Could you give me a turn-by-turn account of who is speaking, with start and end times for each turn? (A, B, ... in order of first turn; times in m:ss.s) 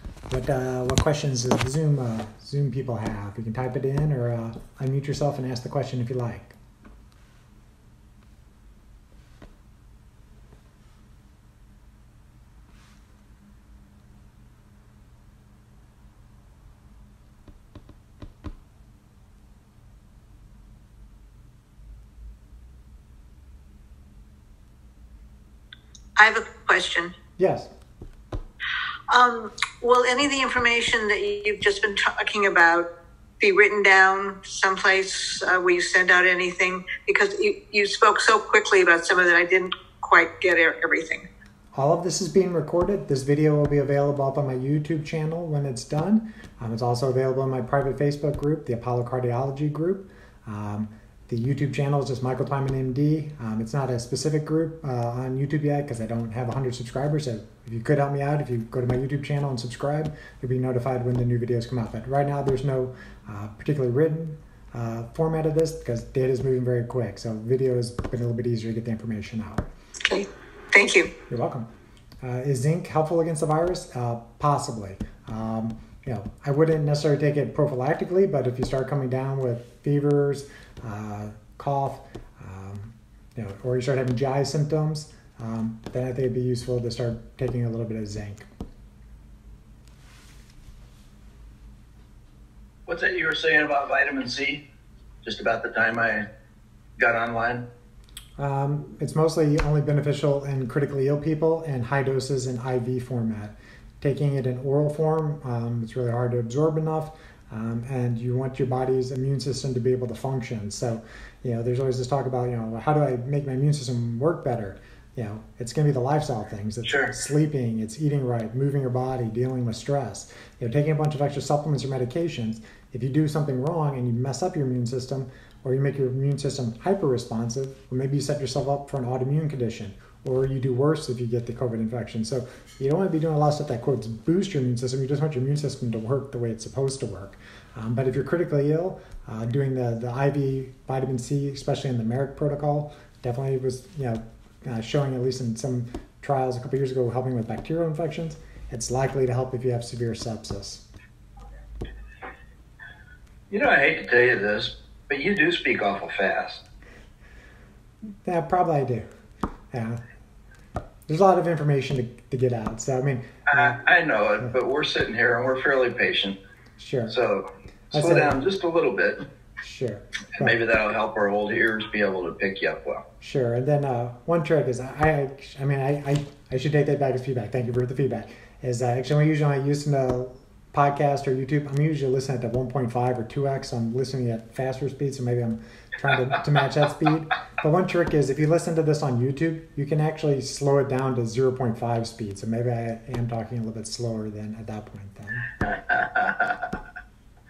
0:00.3-0:06.6 A
0:26.2-0:27.1 B
0:27.4-0:27.7 A
0:29.1-0:32.9 B
0:33.4-0:41.2 B
0:41.7-1:09.7 A
1:10.0-1:11.1 B
1:11.3-1:11.7 A
1:12.2-1:28.5 A
1:32.8-1:34.6 C
1:35.2-1:36.2 C
1:37.0-1:37.7 C
1:38.4-2:30.8 A
1:56.8-1:57.1 C
2:33.5-2:36.6 C
2:38.2-2:39.0 A
2:39.7-2:40.0 A
2:41.1-2:43.7 A
2:43.5-2:46.4 C
2:46.8-2:47.2 A
2:47.1-2:49.3 C
2:47.9-2:48.4 A
2:49.6-2:50.6 A
2:50.4-2:53.0 C
2:53.2-3:15.5 A
3:15.6-3:16.7 C